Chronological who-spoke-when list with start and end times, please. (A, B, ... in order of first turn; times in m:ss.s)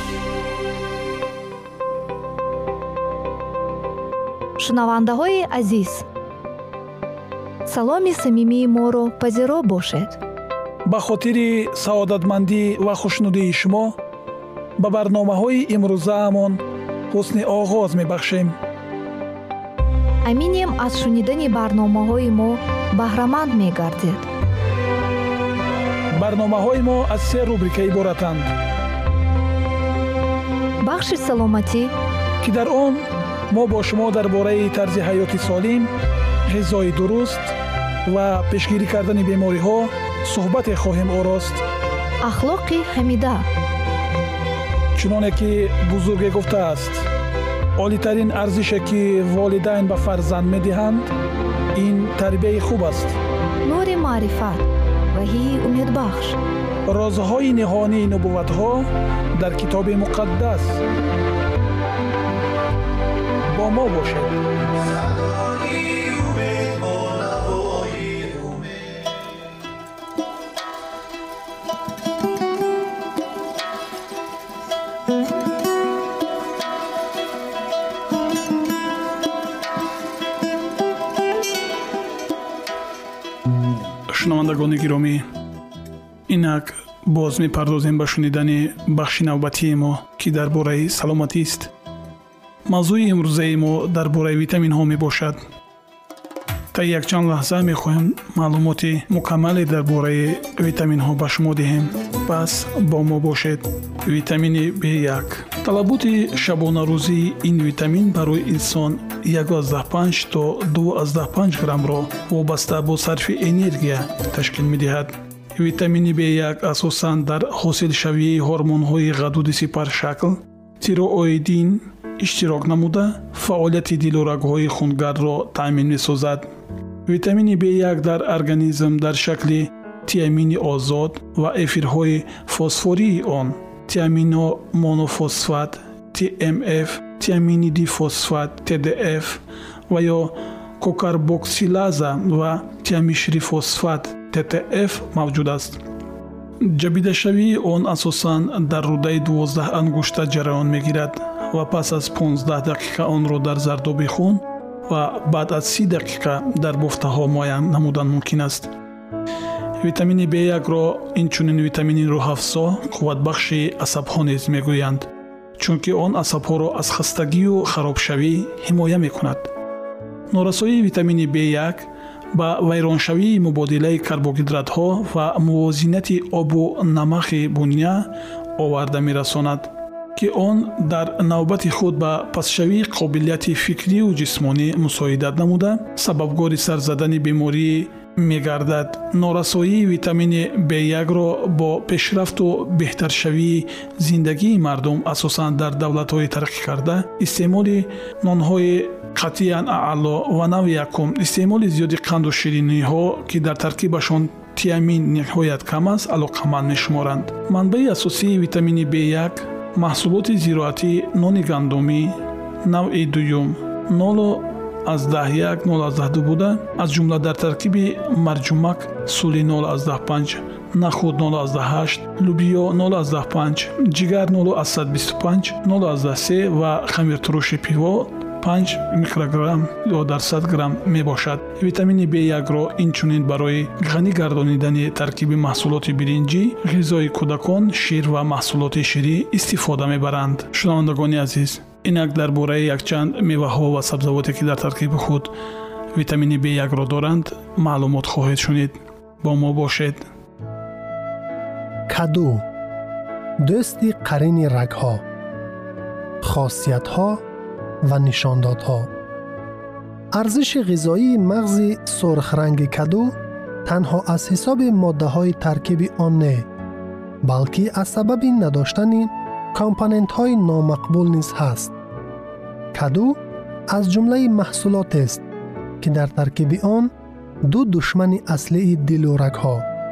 0:04.6-0:06.1 A
0:07.7-0:10.2 A
0:10.8-0:14.0 B
0:14.8-0:18.6 B
0:20.2-0:24.3 A
0:26.1-0:28.5 B
0:30.8-0:31.9 A
0:32.4-0:35.9 B
0:36.5-0:37.5 B
0:38.1-0:41.6 B
0:42.2-0:43.5 A
0:45.0-0:47.1 B
0:47.8-0:51.1 B
0:51.8-0:53.2 B
0:53.6-0:56.4 A
0:56.9-1:00.8 B
1:03.5-1:04.3 B
1:06.2-1:06.6 B
1:07.7-1:08.6 B
1:24.1-1:25.2 B
1:26.3-1:31.7 B
1:32.7-1:35.4 B
1:36.7-2:06.5 B
2:07.1-2:25.8 B
2:26.6-2:38.7 B
2:39.8-2:45.1 B
2:45.6-2:49.5 B
2:50.3-4:05.3 B
4:05.9-4:10.0 B
4:11.9-4:12.4 C
4:13.4-4:15.0 C
4:16.2-4:17.2 C
4:17.8-4:18.9 C
4:20.1-4:26.5 C
4:27.2-4:31.7 C
4:32.7-4:35.2 C
4:35.8-4:36.9 C
4:37.4-4:39.7 C